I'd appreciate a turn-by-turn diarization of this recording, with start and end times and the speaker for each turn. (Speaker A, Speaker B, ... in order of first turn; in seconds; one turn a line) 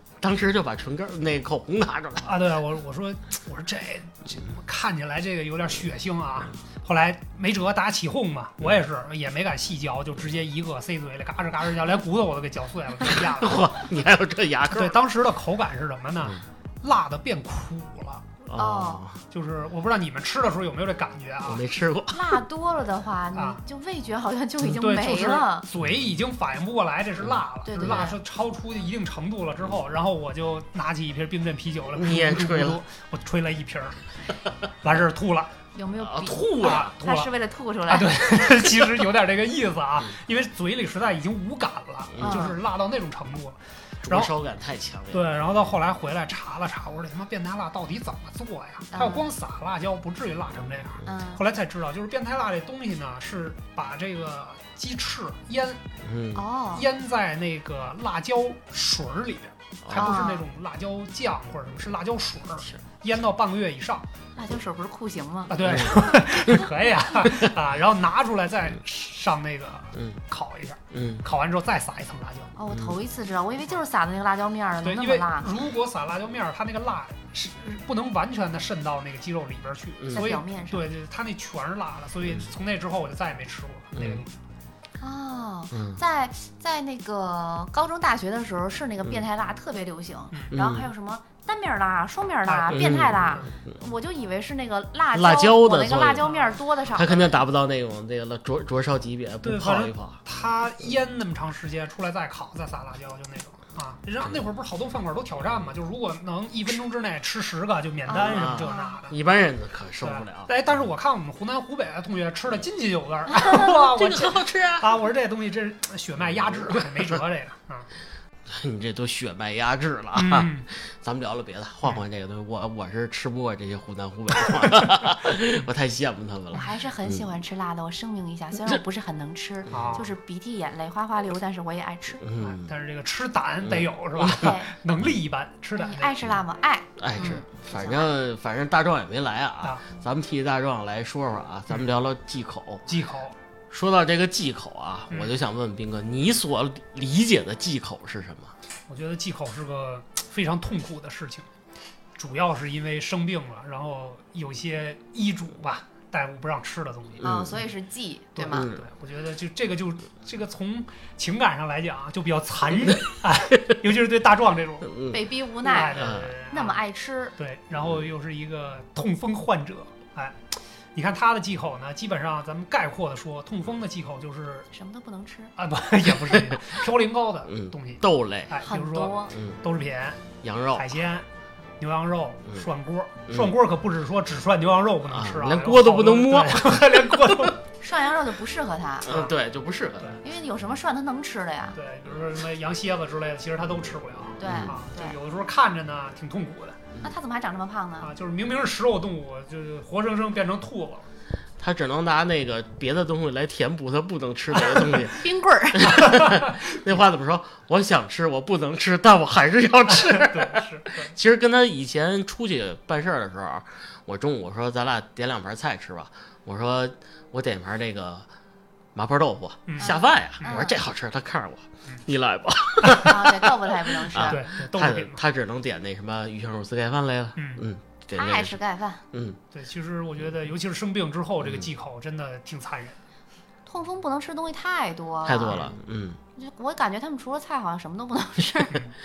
Speaker A: 0.2-2.3
Speaker B: 2.2-13.7
Speaker A: 13.1-15.0
Speaker B: 14.7-18.2
Speaker A: 18.5-19.2
Speaker C: 18.6-19.0
Speaker B: 19.3-21.6
Speaker A: 21.4-22.4
Speaker C: 22.1-25.7
Speaker B: 23.4-23.6
Speaker B: 24.6-34.0
Speaker C: 27.6-28.2
Speaker A: 31.9-32.8
Speaker B: 34.8-35.5
Speaker C: 35.8-38.2
Speaker A: 36.0-37.0
Speaker B: 36.6-37.3
Speaker B: 37.9-44.3
Speaker C: 42.2-42.6
Speaker A: 44.1-45.3
Speaker B: 45.1-55.8
Speaker C: 48.9-49.3
Speaker C: 51.0-51.4
Speaker A: 56.0-56.4
Speaker C: 56.4-56.9
Speaker B: 56.7-64.1
Speaker A: 59.9-60.1
Speaker C: 59.9-60.5
Speaker C: 64.4-65.6
Speaker B: 65.5-72.5
Speaker A: 65.7-66.0
Speaker A: 70.0-70.2
Speaker A: 70.9-71.3
Speaker C: 72.5-75.6
Speaker A: 72.7-73.0
Speaker B: 74.8-84.3
Speaker A: 80.0-80.3
Speaker C: 80.1-80.8
Speaker A: 84.0-84.2
Speaker C: 85.0-97.4
Speaker A: 85.7-86.0
Speaker A: 90.5-90.9
Speaker B: 92.5-93.5
Speaker A: 92.7-93.6
Speaker A: 95.1-96.3
Speaker B: 96.2-96.6
Speaker A: 96.9-100.2
Speaker B: 99.4-109.2
Speaker C: 108.1-109.0
Speaker A: 108.2-110.5
Speaker B: 110.0-117.9
Speaker A: 113.7-114.9
Speaker A: 116.3-117.1
Speaker A: 118.5-127.3
Speaker B: 120.2-120.7
Speaker C: 126.5-132.2
Speaker B: 126.5-126.8
Speaker B: 129.7-130.1
Speaker A: 132.2-132.7
Speaker B: 132.4-136.2
Speaker A: 133.6-134.6
Speaker C: 134.3-134.7
Speaker C: 135.8-138.1
Speaker A: 137.0-142.9
Speaker B: 142.9-143.3
Speaker A: 143.7-148.5
Speaker B: 148.9-151.5
Speaker B: 152.2-157.3
Speaker A: 157.2-157.5
Speaker C: 157.2-158.7
Speaker B: 158.4-165.0
Speaker A: 158.5-158.8
Speaker A: 164.9-165.2
Speaker C: 165.1-167.3
Speaker B: 165.6-166.8
Speaker A: 165.9-166.3
Speaker B: 167.4-174.7
Speaker C: 174.7-175.5
Speaker B: 175.6-181.3
Speaker A: 176.3-176.6
Speaker A: 177.5-178.6
Speaker C: 178.7-179.3
Speaker A: 179.3-179.6
Speaker A: 180.4-180.9
Speaker B: 181.8-187.6
Speaker A: 183.3-183.5
Speaker A: 185.1-187.6
Speaker C: 187.8-189.1
Speaker A: 189.0-190.2
Speaker B: 189.1-189.3
Speaker C: 190.2-191.8
Speaker B: 191.8-196.8
Speaker C: 194.4-195.2
Speaker A: 194.5-194.7
Speaker C: 197.0-198.1
Speaker B: 198.0-201.1
Speaker A: 201.6-218.3
Speaker C: 205.1-206.3
Speaker B: 206.1-206.5
Speaker B: 210.0-211.1
Speaker A: 218.9-228.6
Speaker B: 219.7-220.6
Speaker C: 219.8-220.8
Speaker C: 222.9-224.4
Speaker B: 224.2-225.2
Speaker B: 227.4-227.7
Speaker C: 228.2-229.0
Speaker A: 229.1-229.4
Speaker B: 229.5-233.0
Speaker A: 231.4-231.7
Speaker C: 233.7-235.7
Speaker A: 235.2-236.2
Speaker C: 236.4-238.8